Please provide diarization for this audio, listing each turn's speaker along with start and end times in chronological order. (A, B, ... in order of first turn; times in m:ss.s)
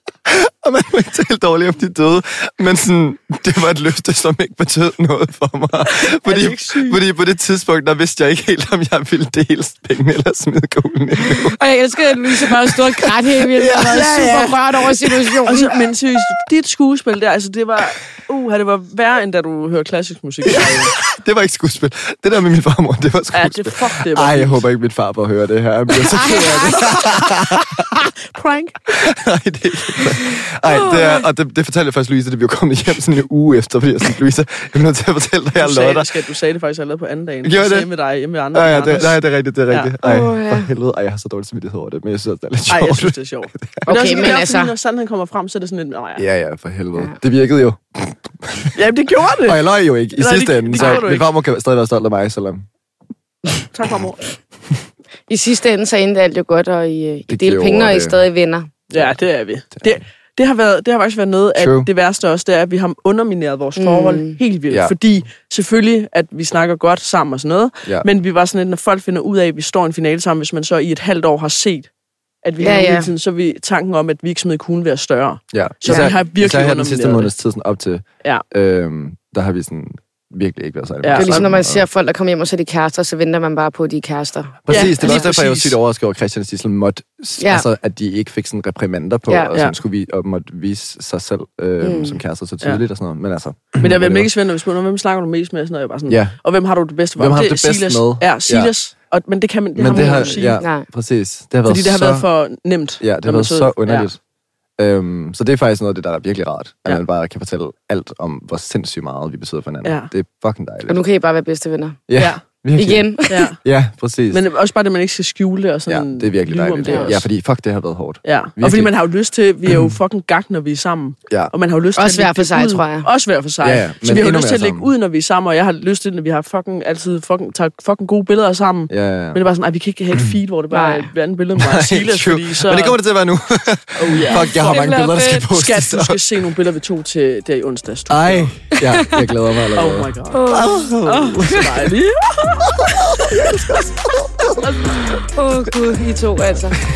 0:00.2-0:11.6 A
0:06.0-0:07.0 B
0:11.4-0:15.7 C
0:12.2-0:14.3 A
0:13.7-0:14.6 B
0:15.0-0:15.4 A
0:15.4-0:21.0 B
0:20.4-0:28.0 A
0:23.3-0:24.6 B
0:26.1-0:27.1 C
0:26.2-0:27.2 B
0:28.3-0:28.8 B
0:28.9-0:36.1 A
0:30.8-0:31.2 C
0:35.6-0:39.9 B
0:37.4-0:37.9 A
0:38.5-0:43.9 A
0:40.0-0:40.7 C
0:42.7-0:46.2 B
0:43.9-0:44.7 C
0:46.2-0:48.8 A
0:48.8-0:51.3 B
0:49.4-0:52.7 A
0:50.8-0:51.0 C
0:53.7-0:54.2 B
0:55.3-0:58.7 C
0:57.3-0:58.2 A
0:58.9-0:59.2 A
0:58.9-1:11.9 B
1:01.6-1:01.9 A
1:03.8-1:04.4 C
1:04.7-1:05.0 A
1:12.4-1:17.3 B
1:12.6-1:13.1 C
1:15.5-1:21.8 A
1:15.9-1:16.1 C
1:21.0-1:21.5 B
1:21.2-1:25.2 C
1:24.6-1:34.3 A
1:24.7-1:25.8 B
1:27.4-1:27.7 C
1:31.8-1:32.2 C
1:33.8-1:40.6 B
1:36.1-1:36.4 A
1:37.2-1:38.7 A
1:39.8-1:42.3 A
1:39.9-1:40.8 C
1:41.7-1:44.1 B
1:43.0-1:44.2 A
1:44.8-1:51.0 A
1:49.8-1:50.1 B
1:50.9-1:52.0 C
1:52.1-1:54.4 A
1:52.2-1:52.4 B
1:52.8-1:53.5 C
1:53.3-1:53.6 B
1:54.3-1:57.2 B
1:55.9-1:58.9 A
1:58.2-2:13.0 B
2:02.0-2:03.1 C
2:03.6-2:04.9 A
2:08.9-2:09.4 A
2:10.7-2:11.1 C
2:11.6-2:16.2 A
2:14.0-2:18.7 B
2:14.1-2:15.0 C
2:18.1-2:22.0 A
2:19.8-2:24.0 B
2:20.3-2:21.0 C
2:22.6-2:24.7 A
2:24.6-2:25.2 B
2:25.3-2:26.8 C